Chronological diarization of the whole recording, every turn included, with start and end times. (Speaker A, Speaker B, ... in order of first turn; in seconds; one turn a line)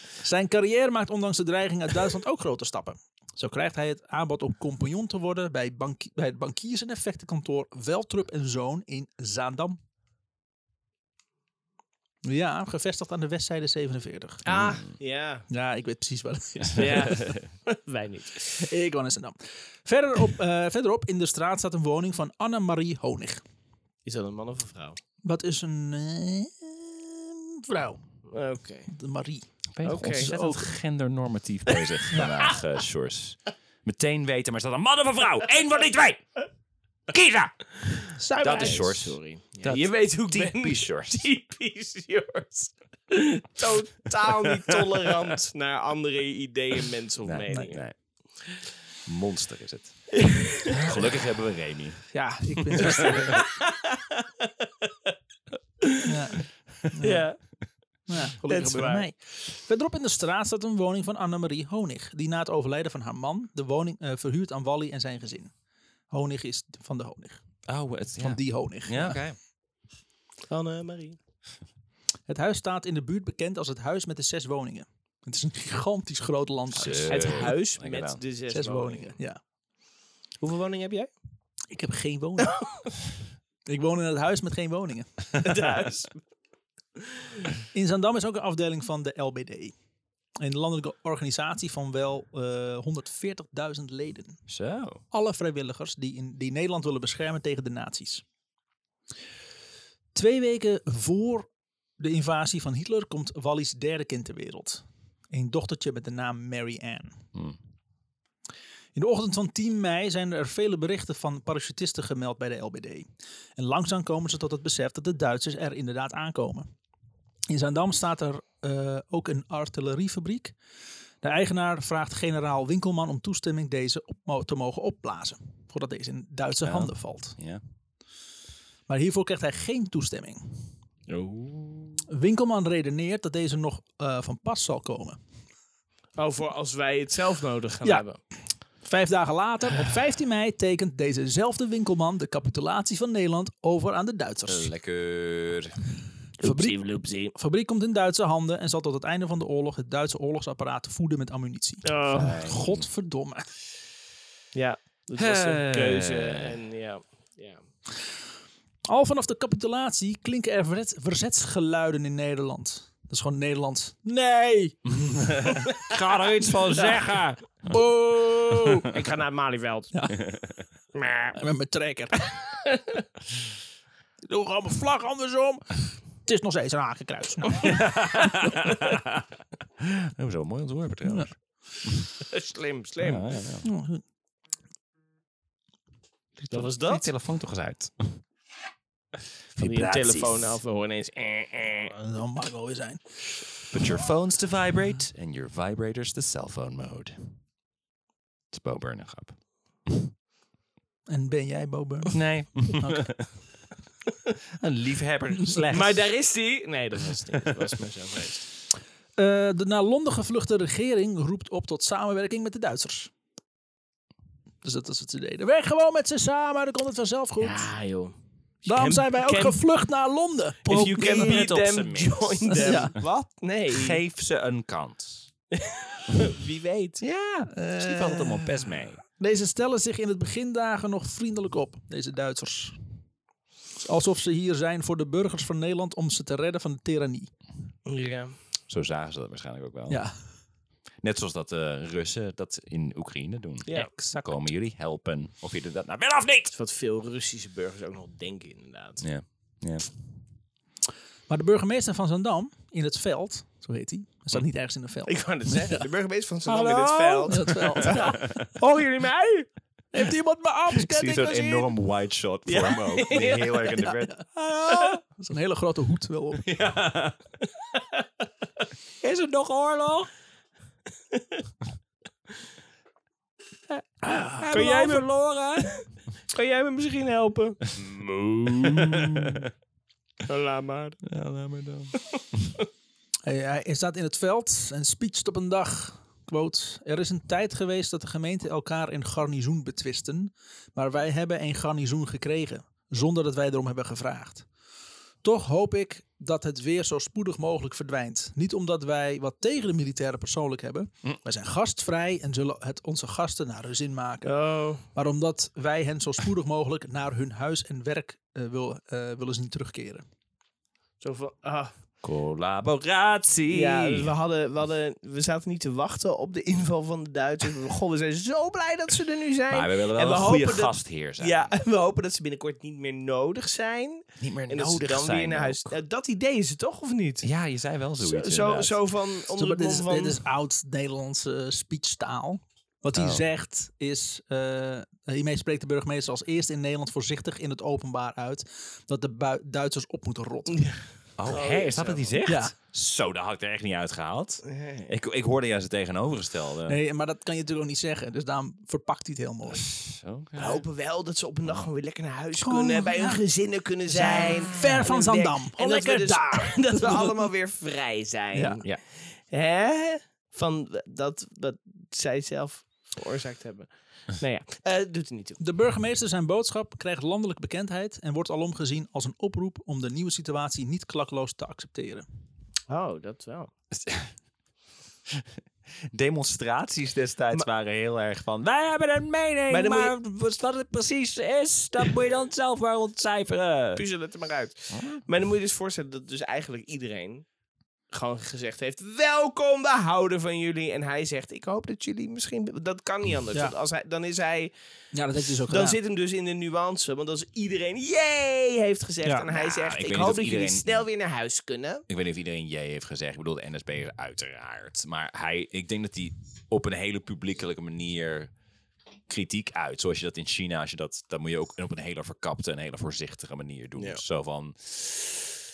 Speaker A: 0.2-9.8
Speaker A: 12.2-14.5
Speaker B: 14.4-14.9
Speaker C: 14.5-15.5
Speaker A: 15.5-17.3
Speaker C: 16.8-18.6
Speaker A: 18.6-23.4
Speaker C: 24.0-25.0
Speaker A: 25.2-28.0
Speaker C: 28.3-28.9
Speaker A: 28.9-30.7
Speaker B: 29.7-36.4
Speaker C: 29.8-30.3
Speaker B: 37.1-41.3
Speaker A: 38.2-38.9
Speaker C: 38.4-48.6
Speaker B: 44.4-45.2
Speaker B: 47.2-48.4
Speaker B: 49.0-53.1
Speaker C: 50.1-50.8
Speaker A: 52.1-53.4
Speaker C: 52.8-54.5
Speaker C: 55.8-56.1
Speaker A: 56.0-57.3
Speaker C: 57.0-57.4
Speaker A: 58.1-65.5
Speaker C: 58.5-59.0
Speaker A: 66.1-67.4
Speaker B: 67.7-69.4
Speaker A: 68.2-69.2
Speaker C: 70.5-71.2
Speaker A: 72.3-77.5
Speaker B: 76.7-78.2
Speaker C: 77.1-79.1
Speaker A: 78.5-79.4
Speaker C: 80.4-81.1
Speaker A: 81.7-82.6
Speaker C: 82.4-82.9
Speaker A: 83.7-85.1
Speaker C: 85.4-86.2
Speaker A: 87.7-89.7
Speaker A: 90.4-94.4
Speaker B: 94.5-95.0
Speaker A: 95.1-98.2
Speaker A: 100.1-107.2
Speaker A: 108.9-116.7
Speaker A: 117.5-120.5
Speaker A: 121.2-127.4
Speaker B: 126.6-127.6
Speaker A: 128.9-130.6
Speaker C: 131.1-132.0
Speaker A: 132.1-135.2
Speaker C: 136.2-138.2
Speaker A: 138.8-144.7
Speaker B: 144.5-145.8
Speaker C: 146.4-147.3
Speaker A: 146.4-146.8
Speaker A: 147.3-153.5
Speaker C: 151.8-152.3
Speaker B: 152.1-152.8
Speaker C: 154.5-157.6
Speaker B: 155.2-156.5
Speaker A: 158.9-164.9
Speaker B: 165.0-167.8
Speaker C: 166.7-167.1
Speaker A: 167.6-168.9
Speaker C: 168.8-169.9
Speaker A: 169.9-170.2
Speaker C: 170.9-171.4
Speaker A: 171.4-172.3
Speaker A: 174.3-177.8
Speaker B: 177.6-179.2
Speaker B: 179.8-182.1
Speaker A: 181.1-181.3
Speaker C: 182.2-183.4
Speaker B: 183.0-183.7
Speaker A: 183.6-184.0
Speaker B: 186.4-188.2
Speaker C: 186.5-187.1
Speaker B: 189.5-190.6
Speaker C: 189.6-191.9
Speaker A: 191.9-193.4
Speaker B: 193.7-197.4
Speaker B: 198.5-200.0
Speaker A: 201.1-203.1
Speaker B: 202.1-203.3
Speaker B: 204.6-206.0
Speaker C: 205.7-208.4
Speaker A: 209.2-213.1
Speaker A: 214.6-217.7
Speaker C: 217.4-218.1
Speaker A: 218.7-221.5
Speaker C: 218.7-219.6
Speaker C: 220.7-224.0
Speaker B: 220.7-223.0
Speaker A: 222.5-222.9
Speaker B: 223.7-225.3
Speaker C: 225.5-227.0
Speaker B: 227.0-229.0
Speaker A: 227.5-232.8
Speaker A: 233.8-237.3
Speaker C: 237.8-238.4
Speaker B: 238.7-240.0
Speaker A: 239.9-240.1
Speaker B: 241.0-246.5
Speaker C: 243.7-244.2
Speaker C: 246.5-249.0
Speaker B: 249.0-249.9
Speaker A: 251.3-255.2
Speaker C: 255.1-259.5
Speaker B: 256.5-258.5
Speaker A: 257.3-258.2
Speaker A: 259.9-261.7
Speaker B: 260.7-264.2
Speaker C: 262.4-264.0
Speaker A: 264.1-266.4
Speaker B: 266.4-267.2
Speaker B: 269.0-270.1
Speaker C: 271.1-271.4
Speaker B: 274.4-275.7
Speaker C: 274.4-275.1
Speaker C: 275.6-277.9
Speaker B: 277.8-279.5
Speaker C: 278.5-279.4
Speaker C: 280.2-281.0
Speaker B: 281.0-282.5
Speaker A: 283.2-294.5
Speaker A: 295.2-304.3
Speaker C: 304.2-304.8
Speaker A: 304.9-310.0
Speaker C: 311.0-311.7
Speaker B: 312.0-314.1
Speaker C: 313.5-327.3
Speaker B: 319.5-321.5
Speaker B: 324.2-325.7
Speaker B: 327.2-328.8
Speaker C: 328.0-330.2
Speaker A: 329.3-340.7
Speaker B: 332.9-333.2
Speaker B: 341.2-346.8
Speaker C: 341.3-342.1
Speaker A: 342.2-342.5
Speaker C: 344.4-344.9
Speaker A: 346.7-349.7
Speaker B: 349.6-350.6
Speaker C: 350.4-365.4
Speaker A: 352.4-353.2
Speaker A: 353.9-357.2
Speaker B: 354.2-354.8
Speaker A: 358.3-358.6
Speaker A: 365.4-372.1
Speaker C: 372.7-373.5
Speaker B: 373.7-374.1
Speaker B: 375.9-383.8
Speaker C: 379.5-379.9
Speaker C: 383.8-387.2
Speaker B: 384.7-385.0
Speaker C: 387.9-394.5
Speaker A: 394.9-395.8
Speaker C: 395.3-401.8
Speaker B: 399.3-400.8
Speaker B: 401.9-408.3
Speaker B: 409.1-415.4
Speaker C: 413.8-414.0